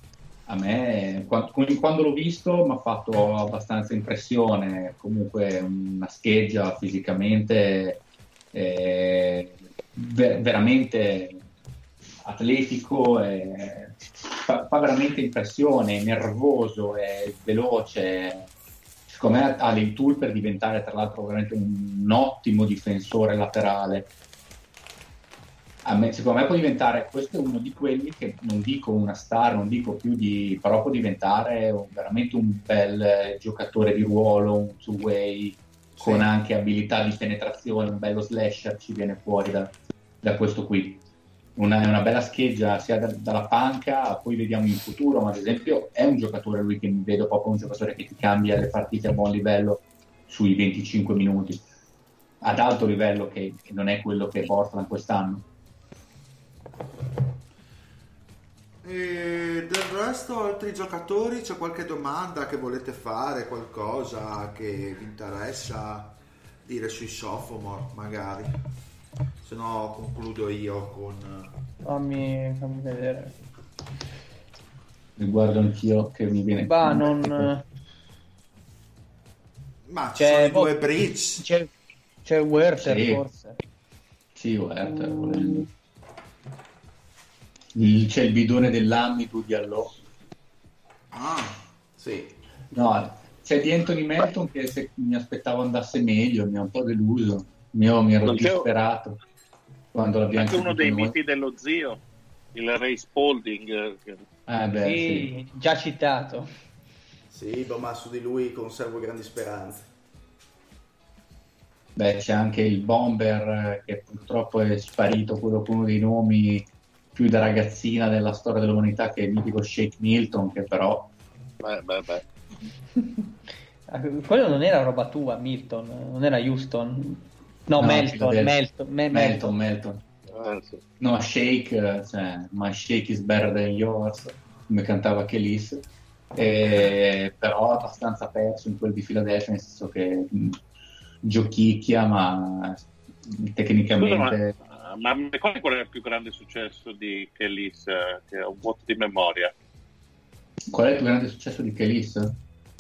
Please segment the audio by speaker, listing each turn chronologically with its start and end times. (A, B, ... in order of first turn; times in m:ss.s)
0:00.5-0:11.4 A
0:12.2-0:18.5 A
0:19.1-0:24.1 A
0:25.8-0:41.0 A
0:36.0-0:36.3 B
0:41.6-0:51.6 A
0:52.4-0:55.5 A
0:58.8-1:08.6 C
1:09.4-1:11.5 C
1:11.8-1:13.4 D
1:15.2-1:17.5 A
1:16.6-1:17.6 D
1:19.9-1:21.4 C
1:20.2-1:20.8 D
1:21.4-1:21.7 D
1:22.2-1:23.6 D
1:22.8-1:23.2 A
1:24.4-1:25.7 A
1:25.1-1:25.4 D
1:27.8-1:30.0 A
1:31.1-1:31.6 C
1:32.0-1:32.3 B
1:32.7-1:39.2 A
1:38.2-1:38.7 E
1:39.9-1:41.2 A
1:40.3-1:42.0 E
1:42.5-1:44.2 E
1:44.5-1:45.3 A
1:44.8-1:46.5 D
1:47.3-1:49.9 B
1:52.0-2:01.1 A
2:01.6-2:02.2 E
2:03.9-2:09.4 D
2:07.8-2:08.6 A
2:09.1-2:10.0 A
2:10.3-2:10.8 E
2:11.0-2:15.8 A
2:16.4-2:20.6 A
2:21.2-2:24.6 A
2:23.9-2:29.5 E
2:30.7-2:32.4 A